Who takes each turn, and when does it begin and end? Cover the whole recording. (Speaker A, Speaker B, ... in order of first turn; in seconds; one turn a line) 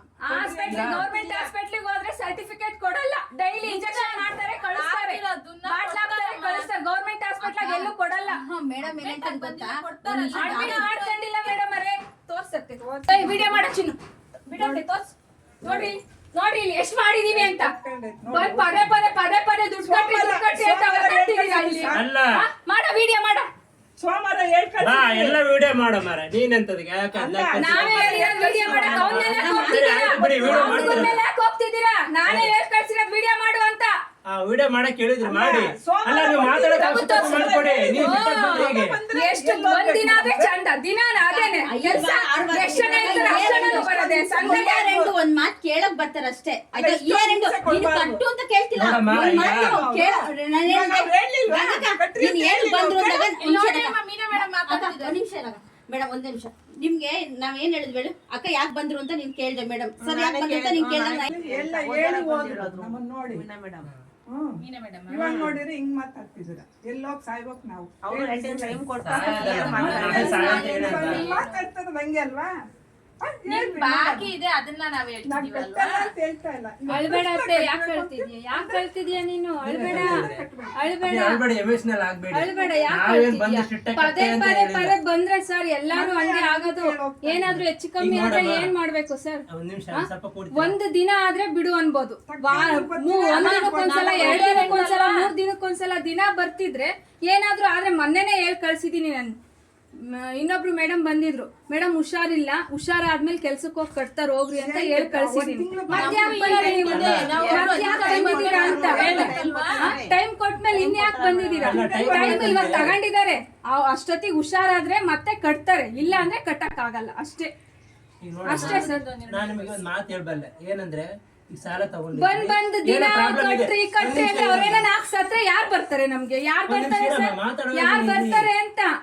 Speaker A: 0.2-8.4
Speaker B: 0.3-1.5
Speaker C: 0.7-1.1
Speaker D: 3.6-6.7
Speaker D: 7.4-7.9
Speaker E: 8.3-10.9
Speaker D: 8.8-11.1
Speaker A: 10.3-13.9
Speaker B: 12.8-13.6
Speaker A: 14.5-17.7
Speaker B: 14.6-14.8
Speaker B: 17.3-19.0
Speaker A: 18.3-23.5
Speaker B: 19.8-22.1
Speaker C: 21.9-22.2
Speaker B: 24.0-25.4
Speaker C: 24.8-31.2
Speaker B: 27.1-31.1
Speaker A: 27.6-33.9
Speaker C: 32.3-32.5
Speaker C: 34.3-39.0
Speaker B: 35.2-40.5
Speaker A: 36.8-44.9
Speaker E: 41.2-54.0
Speaker B: 42.6-45.1
Speaker B: 46.7-48.2
Speaker C: 48.8-49.8
Speaker B: 48.9-53.1
Speaker D: 53.0-55.2
Speaker E: 54.7-61.3
Speaker F: 60.0-63.9
Speaker B: 61.1-63.5
Speaker B: 64.3-72.5
Speaker D: 64.6-65.6
Speaker F: 68.0-70.4
Speaker C: 69.0-71.3
Speaker D: 69.1-71.7
Speaker A: 69.8-70.5
Speaker B: 73.2-74.3
Speaker D: 73.5-76.1
Speaker B: 75.2-78.9
Speaker A: 76.9-80.2
Speaker B: 79.6-81.0
Speaker C: 79.7-80.4
Speaker A: 80.8-81.4
Speaker C: 81.0-85.0
Speaker A: 82.3-99.4
Speaker B: 82.5-82.9
Speaker B: 85.9-87.5
Speaker C: 87.5-88.7
Speaker C: 89.5-90.8
Speaker B: 92.3-94.8
Speaker D: 93.3-95.2
Speaker A: 100.4-117.5
Speaker B: 104.5-109.5
Speaker D: 105.9-110.0
Speaker F: 106.8-110.1
Speaker C: 106.9-107.5
Speaker F: 110.7-111.8
Speaker C: 111.6-112.9
Speaker B: 111.7-112.9
Speaker C: 116.0-116.3
Speaker C: 118.2-124.9
Speaker A: 118.5-119.0
Speaker D: 118.5-119.9
Speaker A: 122.1-128.9
Speaker C: 126.7-128.5